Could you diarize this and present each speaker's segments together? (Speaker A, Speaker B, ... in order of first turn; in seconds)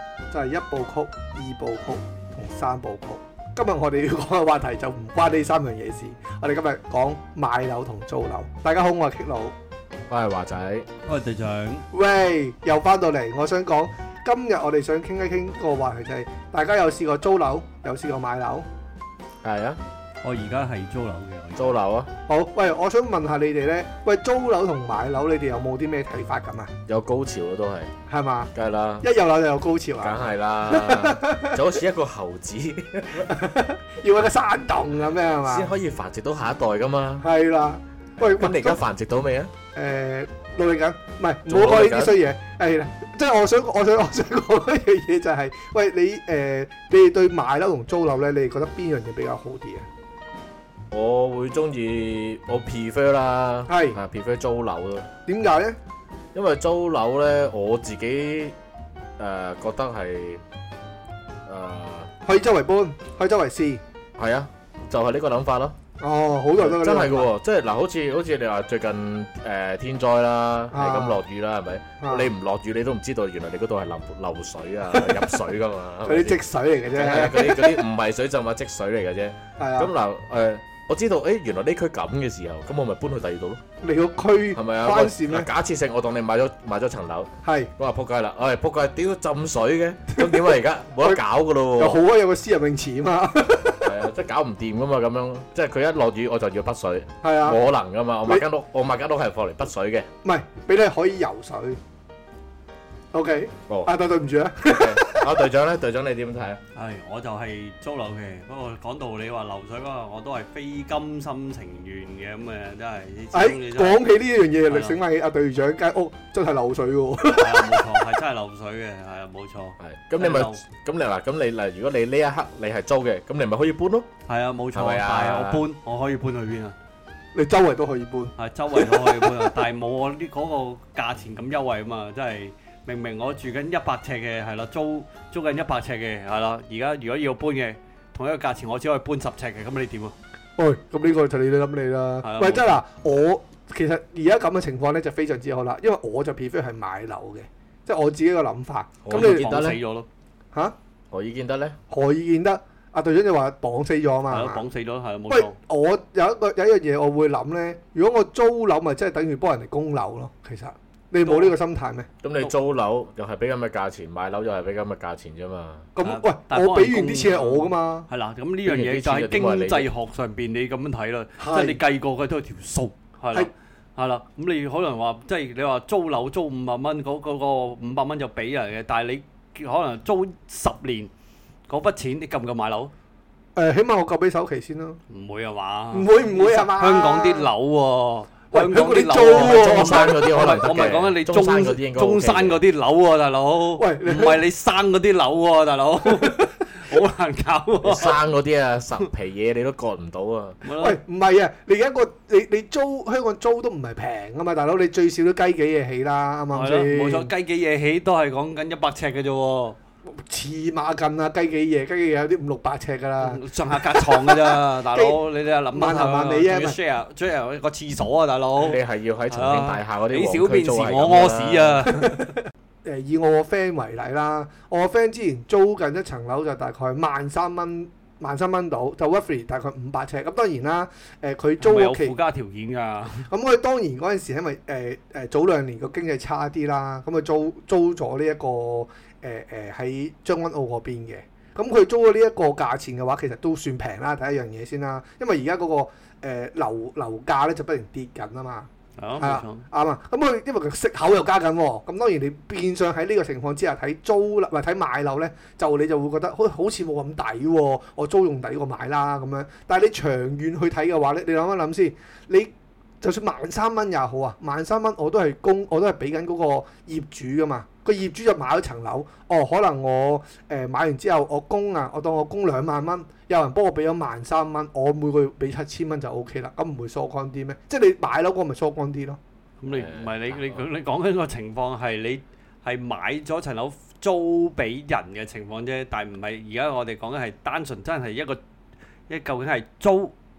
Speaker A: 0.3-9.5, 11.9-18.6, 22.3-26.7, 28.1-28.5, 29.0-31.6, 33.2-35.7, 37.2-38.8, 39.7-49.9, 53.7-54.0, 55.3-55.8, 62.3-63.8, 66.0-67.3, 70.7-71.2, 72.0-72.3, 74.9-75.2, 76.0-77.8, 79.6-79.9, 83.8-85.5, 87.4-87.7, 90.1-90.5, 91.8-93.9, 97.2-97.6, 100.2-101.8, 103.1-105.3, 113.3-118.0, 127.3-129.5, 140.6-149.5, 151.9-154.6, 155.3-162.1, 165.9-168.1, 171.4-171.8, 183.6-185.0, 185.9-187.5, 188.5-190.5, 193.8-194.4, 196.0-196.9, 200.8-207.3, 210.2-215.2, 215.7-216.8, 221.9-232.1, 233.3-279.2
Speaker B: 10.1-10.9, 19.4-19.8, 21.6-22.1, 26.9-27.9, 28.5-29.1, 30.0-33.3, 35.4-37.2, 38.2-39.5, 41.5-42.2, 50.9-55.1, 56.3-58.5, 59.2-60.4, 61.5-62.1, 64.2-65.8, 66.6-76.4, 76.9-83.6, 84.5-92.0, 93.8-100.1, 104.7-106.6, 119.8-124.1, 124.7-125.6, 149.0-149.8, 151.1-151.8, 162.2-165.9, 168.7-169.9, 189.3-192.6, 197.8-200.6, 218.6-221.9, 279.7-280.6
Speaker C: 11.1-11.8, 20.2-21.7, 106.7-114.0, 114.7-115.0, 117.3-120.6, 124.3-126.7, 128.4-140.2, 142.2-142.7, 149.1-150.1, 154.3-155.6, 161.2-161.5, 166.0-181.1, 181.7-182.9, 185.1-198.2, 200.6-201.0, 206.5-209.8, 213.2-222.3, 231.6-233.3, 249.0-249.6, 279.6-288.4, 289.1-290.1